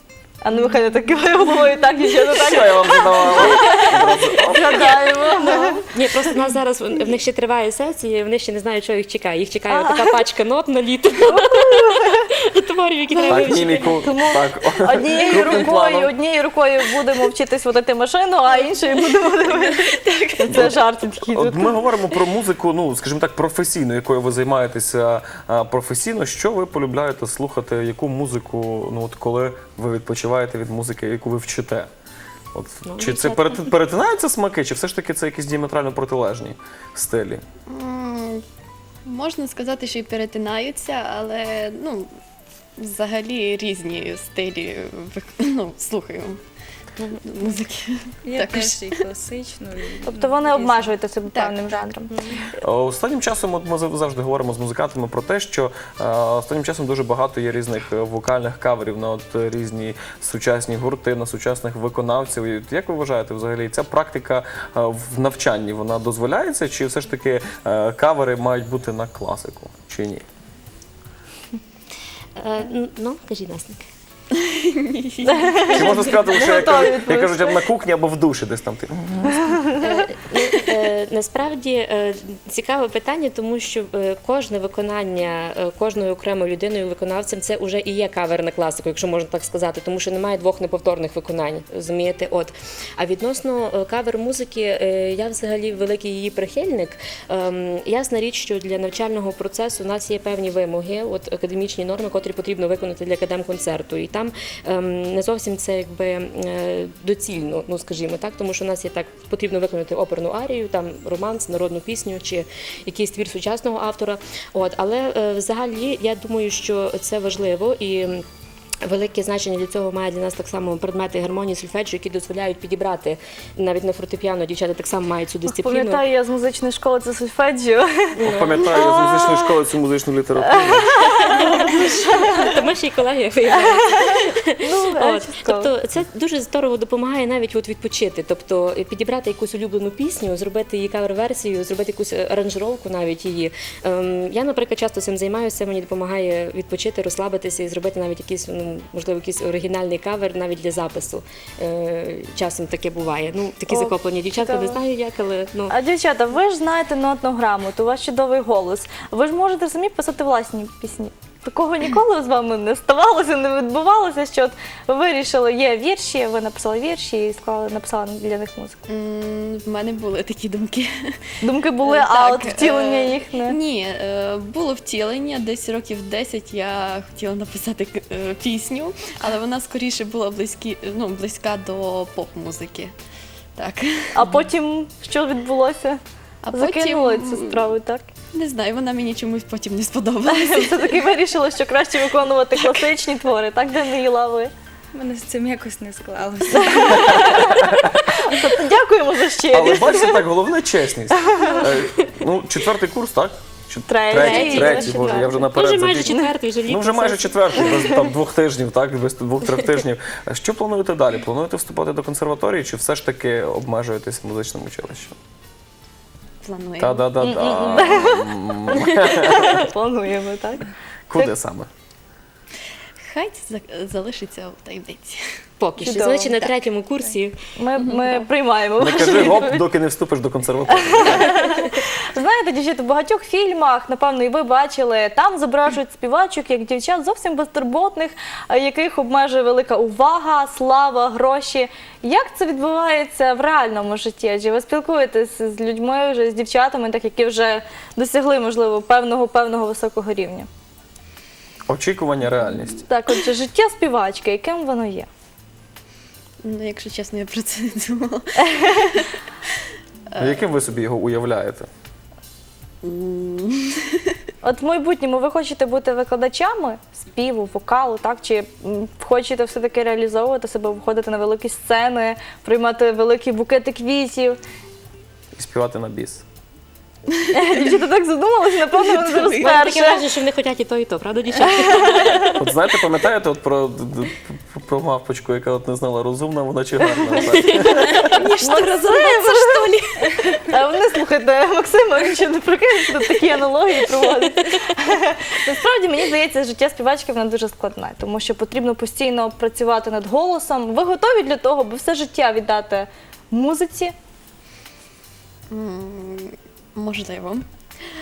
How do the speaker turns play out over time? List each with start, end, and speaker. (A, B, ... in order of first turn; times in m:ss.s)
0:00.4-0:05.9 A
0:02.3-0:05.2 B
0:05.8-0:14.1 C
0:09.7-0:10.2 A
0:11.2-0:12.2 A
0:13.2-0:13.6 D
0:13.2-0:16.1 B
0:14.0-0:21.8 A
0:19.4-0:20.6 D
0:20.5-0:31.9 B
0:32.5-0:37.4 B
0:32.8-0:33.7 C
0:37.7-0:38.4 D
0:39.0-0:42.1 D
0:42.8-0:46.4 D
0:47.1-0:48.9 D
0:48.2-0:51.0 E
0:50.0-0:52.4 A
0:52.6-1:10.2 B
1:12.4-1:13.8 C
1:14.3-1:16.2 D
1:15.2-1:17.6 A
1:15.7-1:19.6 B
1:19.3-1:19.8 A
1:19.8-1:58.2 C
1:58.8-2:06.0 C
2:05.5-2:09.4 A
2:08.2-2:11.1 B
2:08.2-2:08.6 C
2:10.5-2:12.6 A
2:11.2-2:35.8 C
2:11.4-2:12.0 D
2:13.6-2:15.7 A
2:33.7-2:34.8 A
2:35.7-2:48.8 A
2:48.9-2:51.3 D
2:51.4-2:53.6 A
2:51.8-3:02.9 D
3:03.6-3:04.4 D
3:04.1-3:06.0 A
3:06.4-3:07.7 D
3:06.5-3:08.1 A
3:08.3-3:11.0 D
3:10.3-3:14.5 A
3:14.9-3:17.6 E
3:16.6-3:20.2 A
3:17.3-3:17.9 B
3:19.5-3:35.1 B
3:21.2-3:21.7 A
3:23.9-3:25.3 A
3:24.1-3:27.9 C
3:36.4-3:37.9 D
3:36.8-3:39.6 B
3:37.2-3:41.3 A
3:41.1-3:41.7 B
3:43.0-3:45.2 D
3:45.6-3:47.4 C
3:45.8-3:46.5 A
3:47.6-3:49.6 A
3:48.8-3:51.5 B
3:50.7-4:10.5 A
4:11.7-4:12.8 B
4:12.8-4:15.1 A
4:16.4-4:19.1 D
4:18.4-4:19.0 A
4:20.1-4:20.4 D
4:20.2-4:21.7 B
4:22.8-4:24.2 D
4:24.4-4:34.4 A
4:35.4-4:36.2 B
4:37.1-4:37.7 D
4:37.3-4:40.0 A
4:38.7-4:39.5 D
4:39.2-4:42.5 C
4:41.6-4:42.3 A
4:42.4-4:48.1 B
4:47.4-4:49.8 C
4:47.5-4:49.6 A
4:47.9-4:50.4 D
4:50.2-5:03.9 A
5:05.5-5:07.4 D